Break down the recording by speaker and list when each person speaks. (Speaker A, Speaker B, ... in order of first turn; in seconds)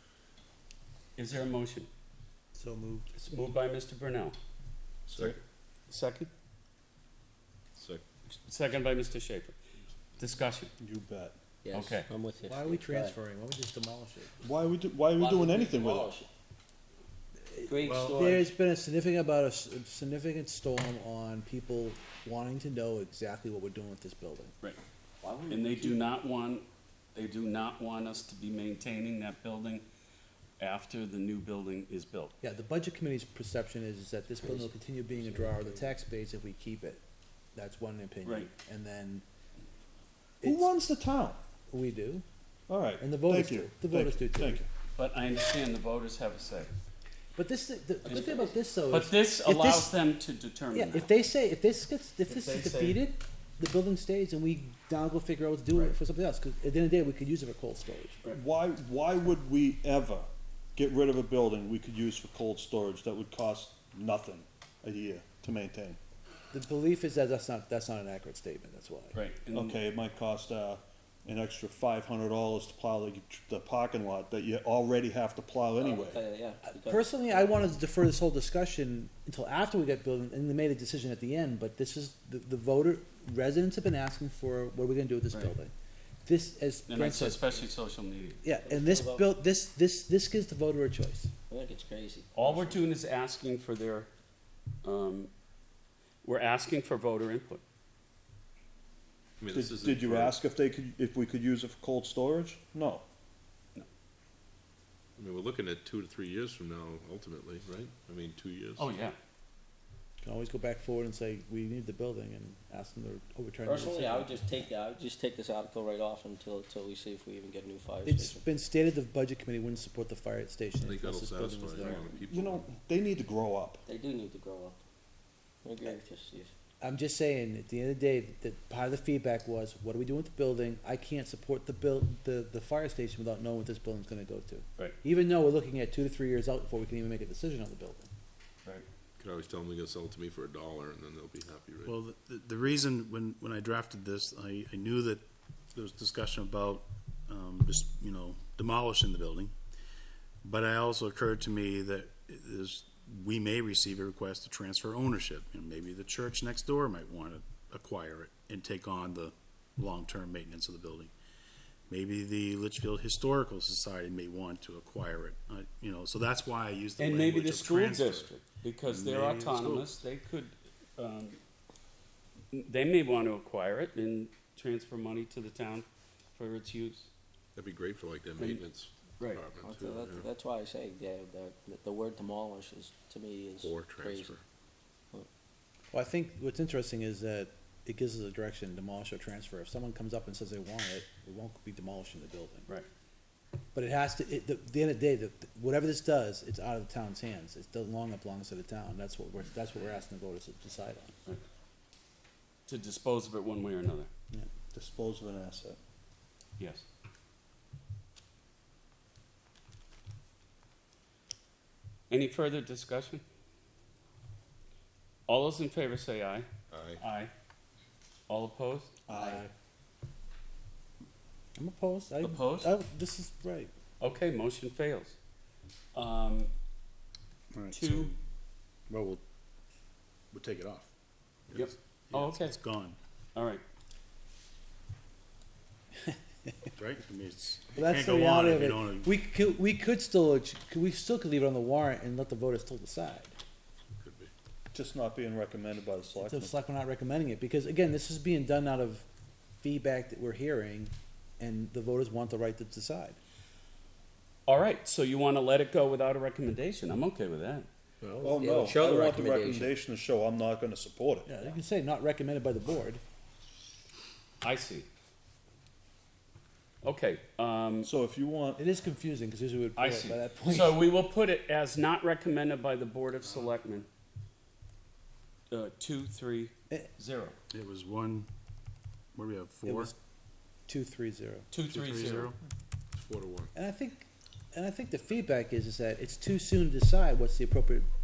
Speaker A: 1.2-1.9, 3.1-4.4, 5.9-6.3, 8.3-9.6, 10.2-10.7, 11.7-12.1, 25.5-29.9, 30.6-32.3, 38.2-38.5, 45.0-46.7, 48.1-48.4, 48.9-51.1, 52.3-53.0, 69.1-69.8, 86.9-88.4, 92.3-94.1, 94.8-95.3, 96.2-97.6, 108.8-109.2, 167.0-171.4, 172.5-177.1, 178.4-178.6, 202.7-204.1, 206.6-206.8, 212.1-213.2, 215.3-216.5, 217.0-217.3, 218.3-218.9, 222.2-222.7, 224.0-225.2, 225.9-226.5, 227.7-228.1, 231.5-232.6, 233.3-233.6, 254.5-257.7, 264.4-264.9, 266.8-267.9, 269.8-273.9, 275.5-277.4, 281.5-282.3
Speaker B: 2.5-3.1, 12.5-14.3, 17.5-24.5, 32.4-37.0, 37.5-39.2, 40.4-40.9, 41.7-42.2, 43.0-44.6, 47.4-49.9, 50.7-58.2, 66.5-69.2, 76.7-85.7, 86.2-87.5, 88.4-91.3, 110.2-114.7, 118.0-122.2, 126.8-138.1, 185.9-192.7, 193.8-201.1, 219.1-219.5, 221.6-223.7, 236.1-236.5, 237.8-243.3, 246.2-249.1, 249.6-253.2, 261.3-263.0, 268.6-270.9, 279.7-279.9, 280.7-281.5, 283.5-287.9
Speaker C: 5.1-5.4, 7.8-8.0, 99.4-100.4, 105.2-109.0, 120.8-122.7, 139.2-141.9, 177.6-180.3, 183.6-184.4, 216.7-217.0, 244.0-244.3, 283.0-283.5
Speaker D: 10.8-11.4, 14.4-16.1, 40.4-41.4, 42.7-44.7, 58.3-66.0, 69.5-76.2, 99.5-103.1, 122.3-123.8, 204.7-205.8, 219.1-219.4, 244.7-246.5, 258.2-261.3, 267.8-268.6
Speaker E: 11.6-13.2, 15.2-16.3, 17.6-18.5, 25.2-26.0, 34.4-35.9, 48.1-48.4, 75.8-77.7, 88.6-89.3, 91.5-92.8, 113.7-118.4, 123.9-124.8, 125.6-126.5, 179.6-184.4, 258.1-259.7
Speaker F: 141.8-149.5, 150.4-161.1, 161.9-168.3, 168.9-169.9, 227.5-228.2, 228.9-229.2, 230.3-230.9, 231.5-233.0, 236.8-239.1, 277.5-278.3, 279.1-279.9, 281.7-282.4